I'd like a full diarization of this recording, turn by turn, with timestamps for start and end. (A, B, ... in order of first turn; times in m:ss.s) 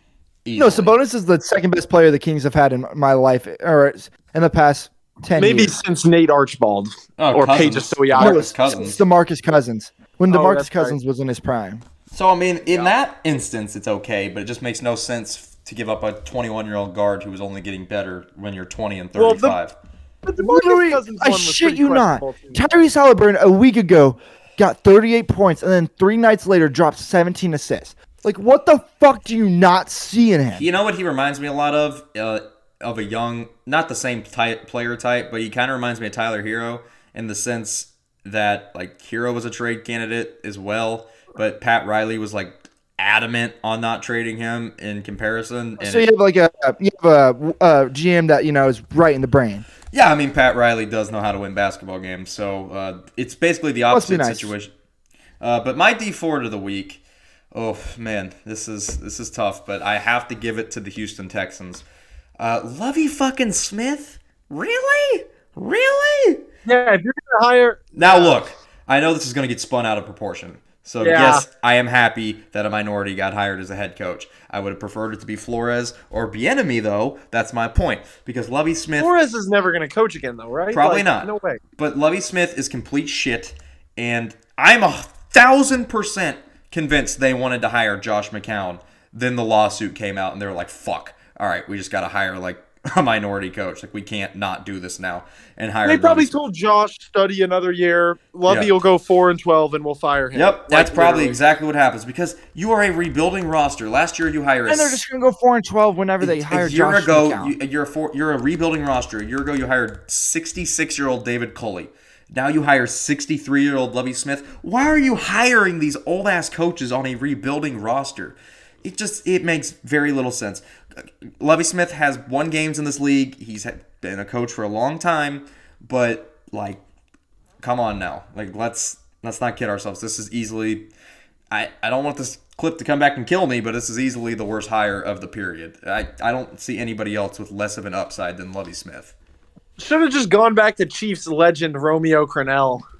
0:00.4-0:01.0 A
0:00.6-0:05.8 B
0:05.4-0:08.4 C
0:07.2-0:09.0 A
0:08.2-0:11.8 B
0:10.3-0:11.0 C
0:12.1-0:19.7 A
0:12.6-0:12.9 C
0:19.2-0:19.6 C
0:20.2-0:22.6 C
0:20.4-0:30.6 B
0:30.5-0:46.1 A
0:45.8-0:49.6 B
0:49.9-0:54.7 A
0:53.9-0:54.5 B
0:55.4-0:57.0 A
0:57.5-1:01.8 A
1:02.4-1:06.4 A
1:06.6-1:08.5 C
1:07.9-1:19.1 A
1:11.0-1:11.4 C
1:19.0-1:21.6 C
1:20.7-1:36.3 A
1:35.8-1:41.4 C
1:38.5-1:38.8 A
1:40.3-1:45.0 A
1:44.7-1:47.5 B
1:46.2-2:06.8 A
2:07.6-2:10.9 A
2:11.5-2:19.1 A
2:19.8-2:22.8 C